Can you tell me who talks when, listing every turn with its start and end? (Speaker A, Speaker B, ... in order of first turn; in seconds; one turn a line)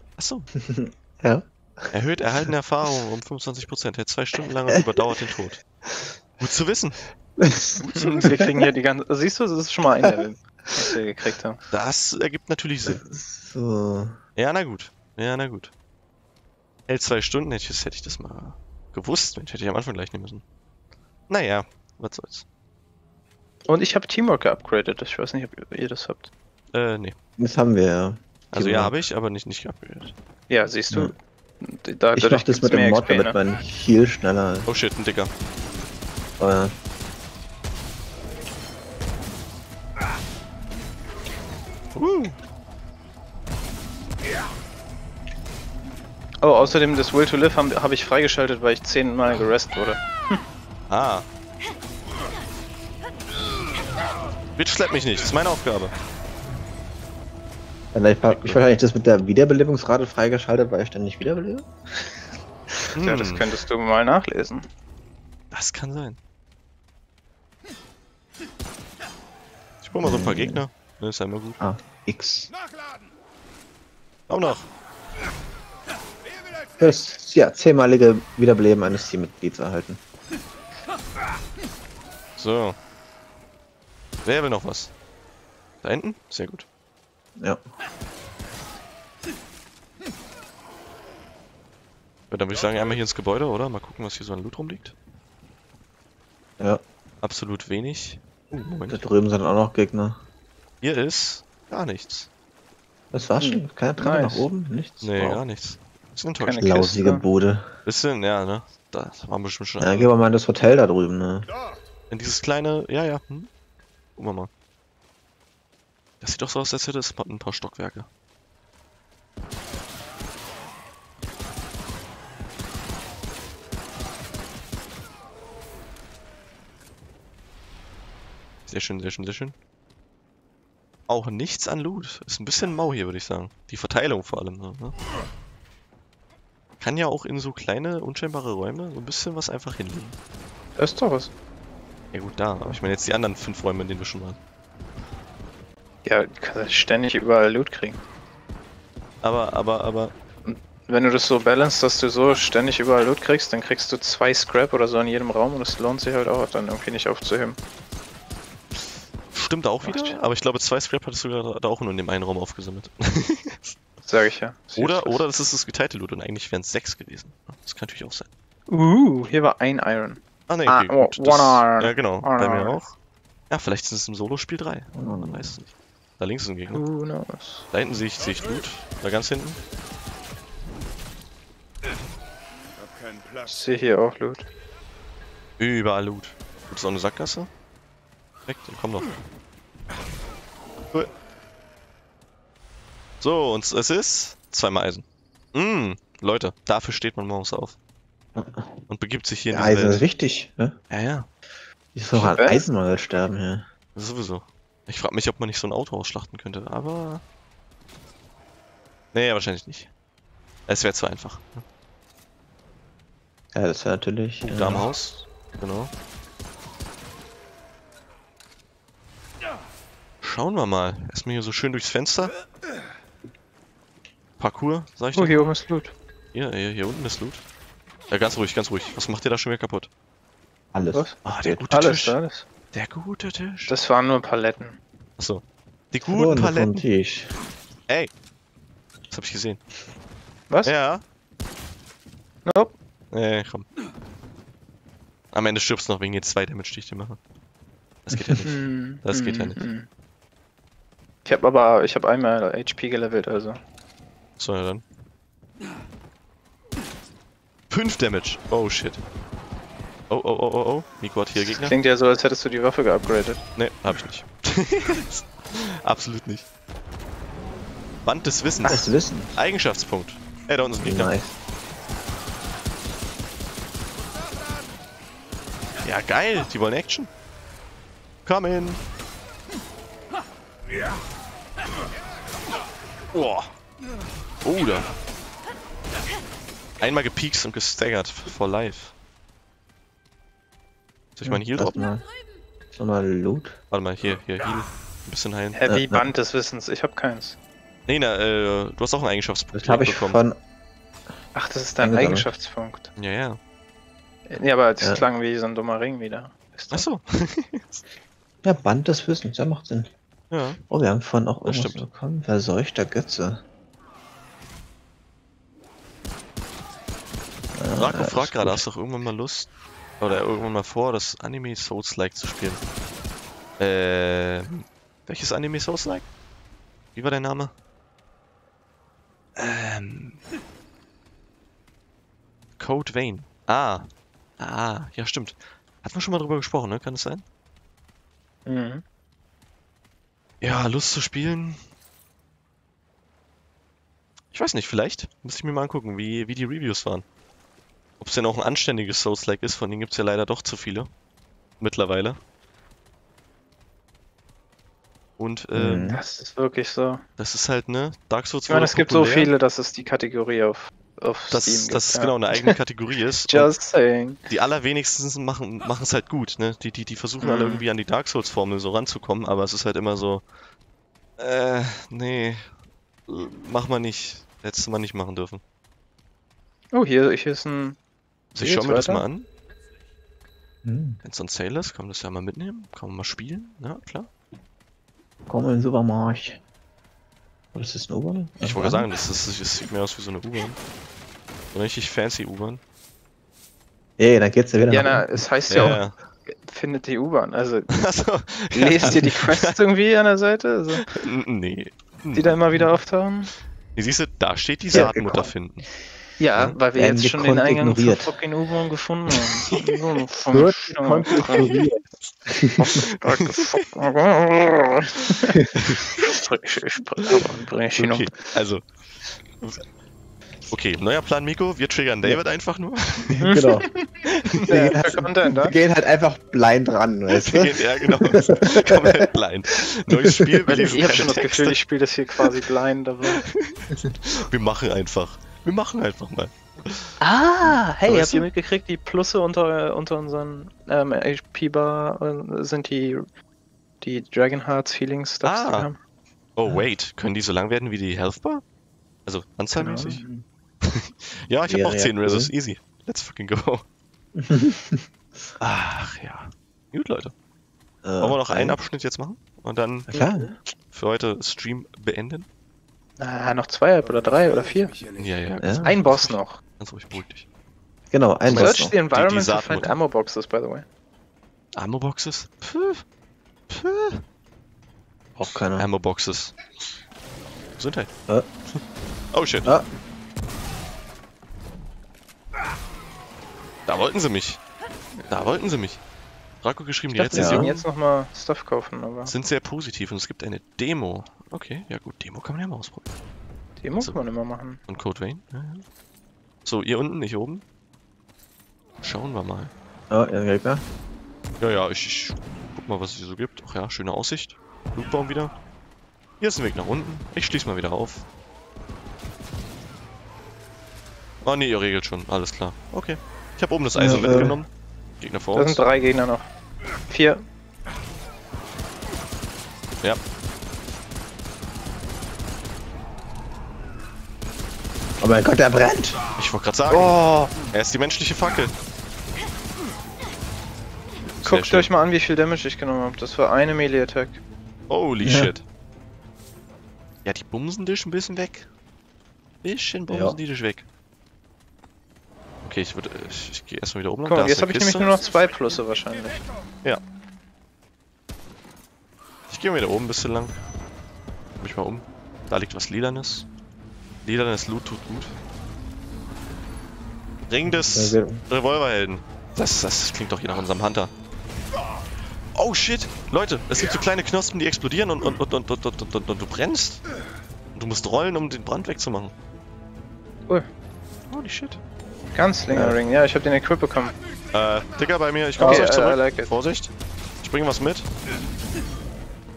Speaker A: 0.2-0.5
Speaker B: 0.6-1.9
Speaker A: 1.9-5.6
Speaker A: 6.4-7.0
Speaker B: 7.4-8.7
Speaker A: 7.8-8.4
Speaker C: 8.0-11.6
Speaker A: 11.7-13.0
Speaker B: 12.8-14.2
Speaker A: 14.4-15.7
Speaker A: 16.9-20.4
Speaker A: 21.3-22.4
Speaker C: 23.7-26.3
Speaker A: 26.7-27.2
Speaker B: 27.4-28.9
Speaker A: 28.5-30.1
Speaker C: 30.5-33.4
Speaker B: 32.1-34.7
Speaker A: 34.7-35.3
Speaker B: 36.4-36.7
Speaker A: 42.0-42.4
Speaker C: 46.4-50.4
Speaker A: 50.9-51.2
Speaker A: 54.6-55.9
Speaker B: 57.9-62.0
Speaker A: 58.3-58.6
Speaker A: 62.9-63.5
Speaker C: 63.0-64.7
Speaker A: 65.5-66.2
Speaker A: 69.8-71.6
Speaker B: 70.0-70.6
Speaker B: 71.6-72.5
Speaker A: 74.3-74.7
Speaker B: 76.8-80.0
Speaker A: 82.4-82.8
Speaker A: 84.2-84.9
Speaker A: 85.8-86.7
Speaker A: 92.3-94.9
Speaker A: 97.2-99.0
Speaker B: 98.9-100.2
Speaker A: 100.8-102.3
Speaker B: 103.1-105.4
Speaker C: 103.4-104.5
Speaker A: 105.0-106.7
Speaker C: 106.4-107.2
Speaker B: 106.6-107.7
Speaker A: 107.8-110.1
Speaker B: 109.8-111.5
Speaker A: 112.1-113.5
Speaker A: 114.2-114.5
Speaker A: 116.2-118.1
Speaker A: 128.7-129.6
Speaker A: 131.1-134.9
Speaker A: 136.8-140.2
Speaker C: 140.8-141.3
Speaker A: 142.1-144.4
Speaker C: 146.1-148.0
Speaker A: 149.2-150.1
Speaker C: 150.4-157.6
Speaker A: 158.8-163.8
Speaker C: 159.8-160.2
Speaker C: 164.0-165.2
Speaker A: 164.8-168.3
Speaker C: 168.7-172.8
Speaker A: 170.5-172.9
Speaker A: 173.5-176.8
Speaker B: 174.9-175.6
Speaker C: 176.7-177.7
Speaker A: 177.7-179.6
Speaker C: 183.4-184.5
Speaker A: 185.6-187.5
Speaker A: 188.5-189.1
Speaker A: 193.2-197.8
Speaker B: 198.3-198.8
Speaker A: 198.9-200.0
Speaker B: 199.5-200.8
Speaker A: 200.9-201.3
Speaker B: 201.9-203.7
Speaker C: 202.3-202.6
Speaker A: 203.9-207.2
Speaker A: 209.1-209.9
Speaker A: 210.7-211.7
Speaker B: 213.5-214.9
Speaker A: 214.4-215.9
Speaker A: 220.2-222.3
Speaker A: 224.4-225.5
Speaker C: 225.2-225.9
Speaker A: 226.3-227.4
Speaker A: 228.1-229.9
Speaker B: 230.7-231.1
Speaker C: 230.9-232.4
Speaker A: 231.2-232.2
Speaker A: 232.7-233.7
Speaker C: 233.7-234.8
Speaker A: 235.2-236.8
Speaker B: 236.1-237.3
Speaker A: 239.1-239.6
Speaker A: 240.7-241.0
Speaker C: 242.4-242.7
Speaker A: 243.1-243.7
Speaker A: 245.3-247.2
Speaker A: 248.1-249.6
Speaker B: 248.1-248.4
Speaker C: 248.4-249.9
Speaker C: 251.2-253.6
Speaker A: 254.4-254.8
Speaker A: 257.7-259.0
Speaker A: 260.1-261.7
Speaker C: 261.4-263.4
Speaker A: 263.6-266.4
Speaker A: 268.1-271.2
Speaker B: 268.6-269.4
Speaker B: 270.8-271.3
Speaker A: 275.8-277.1
Speaker A: 278.3-278.8
Speaker A: 283.1-283.5
Speaker A: 284.4-284.9
Speaker A: 286.8-288.9
Speaker A: 291.2-291.8
Speaker B: 291.2-292.1
Speaker B: 292.7-293.6
Speaker A: 293.7-295.6
Speaker C: 295.5-297.4
Speaker B: 295.7-296.1
Speaker A: 297.9-300.2
Speaker B: 299.5-300.4
Speaker C: 301.4-302.9
Speaker B: 301.8-302.3
Speaker A: 303.0-303.4
Speaker C: 304.3-306.9
Speaker B: 304.8-305.1
Speaker A: 306.7-307.8
Speaker B: 308.4-309.9
Speaker A: 310.3-310.6
Speaker B: 310.7-313.4
Speaker A: 311.4-311.9
Speaker B: 317.6-318.6
Speaker A: 317.7-322.6
Speaker A: 323.6-326.1
Speaker A: 326.9-327.5
Speaker A: 329.4-330.2
Speaker A: 332.6-337.2
Speaker C: 338.4-338.8
Speaker A: 340.4-341.6
Speaker A: 344.3-347.1
Speaker A: 348.0-350.9
Speaker A: 351.6-352.2
Speaker A: 355.2-355.9
Speaker B: 355.6-356.0
Speaker C: 355.9-357.0
Speaker A: 357.2-359.3
Speaker C: 358.5-362.5
Speaker A: 361.3-363.5
Speaker C: 363.3-364.2
Speaker A: 364.3-370.3
Speaker C: 367.2-367.6
Speaker A: 371.2-372.5
Speaker A: 373.1-375.4
Speaker C: 376.7-377.8
Speaker A: 378.3-379.3
Speaker C: 378.4-379.0
Speaker B: 380.6-381.0
Speaker A: 381.0-384.1
Speaker B: 385.3-386.4
Speaker B: 387.5-388.9
Speaker A: 388.4-390.6
Speaker A: 391.5-392.6
Speaker B: 394.0-395.8
Speaker C: 394.7-397.7
Speaker A: 395.5-395.9
Speaker A: 397.7-399.6
Speaker C: 398.6-400.9
Speaker A: 400.9-402.4
Speaker C: 402.1-403.3
Speaker A: 403.7-405.7
Speaker B: 404.7-405.3
Speaker C: 406.2-411.6
Speaker B: 406.7-408.1
Speaker A: 409.4-409.8
Speaker B: 410.3-412.8
Speaker A: 411.3-412.1
Speaker C: 412.6-418.1
Speaker A: 412.7-413.6
Speaker B: 415.3-415.5
Speaker A: 415.6-416.0
Speaker A: 417.7-418.7
Speaker A: 420.5-423.3
Speaker B: 423.1-423.7
Speaker C: 423.2-423.9
Speaker B: 424.3-429.1
Speaker C: 424.4-425.6
Speaker A: 427.1-431.6
Speaker B: 429.9-430.5
Speaker C: 430.5-433.2
Speaker A: 433.1-437.0
Speaker C: 437.0-443.1
Speaker A: 437.8-438.3
Speaker C: 443.8-445.8
Speaker A: 445.2-445.7
Speaker A: 446.4-448.4
Speaker A: 449.1-450.1
Speaker B: 449.6-450.2
Speaker A: 450.6-453.6
Speaker B: 451.5-452.3
Speaker B: 454.1-455.3
Speaker A: 455.4-457.1
Speaker B: 457.8-458.6
Speaker A: 458.0-459.9
Speaker B: 459.9-460.3
Speaker C: 459.9-460.3
Speaker A: 460.7-462.3
Speaker C: 463.0-466.4
Speaker A: 465.0-467.3
Speaker B: 465.4-465.7
Speaker B: 467.9-468.7
Speaker A: 468.3-469.7
Speaker C: 468.3-470.7
Speaker A: 471.6-472.8
Speaker A: 473.5-474.0
Speaker B: 475.2-475.7
Speaker A: 475.3-476.4
Speaker A: 477.6-477.9
Speaker A: 479.1-479.6
Speaker A: 483.7-484.4
Speaker A: 485.1-485.8
Speaker A: 486.4-487.7
Speaker C: 486.9-489.1
Speaker B: 487.1-487.5
Speaker A: 489.1-492.9
Speaker C: 493.6-494.6
Speaker A: 494.7-495.6
Speaker A: 496.4-497.4
Speaker A: 498.8-499.5
Speaker B: 499.9-500.6
Speaker A: 501.4-505.4
Speaker A: 506.2-508.0
Speaker A: 511.2-514.5
Speaker B: 513.8-514.4
Speaker A: 515.0-515.6
Speaker C: 515.4-516.3
Speaker C: 516.9-517.2
Speaker B: 525.0-526.0
Speaker A: 526.2-528.5
Speaker C: 526.7-527.3
Speaker A: 531.1-531.7
Speaker C: 531.2-534.2
Speaker A: 534.7-535.5
Speaker B: 535.0-535.3
Speaker A: 537.0-538.5
Speaker A: 539.4-540.7
Speaker B: 539.9-540.2
Speaker A: 542.5-544.9
Speaker C: 544.0-546.2
Speaker A: 549.3-550.4
Speaker A: 551.4-553.3
Speaker A: 554.0-555.2
Speaker A: 557.3-560.9
Speaker B: 557.5-558.2
Speaker A: 562.3-566.8
Speaker A: 567.5-569.1
Speaker A: 571.1-571.6
Speaker C: 572.1-574.0
Speaker B: 572.5-572.8
Speaker A: 574.3-577.9
Speaker C: 575.4-576.3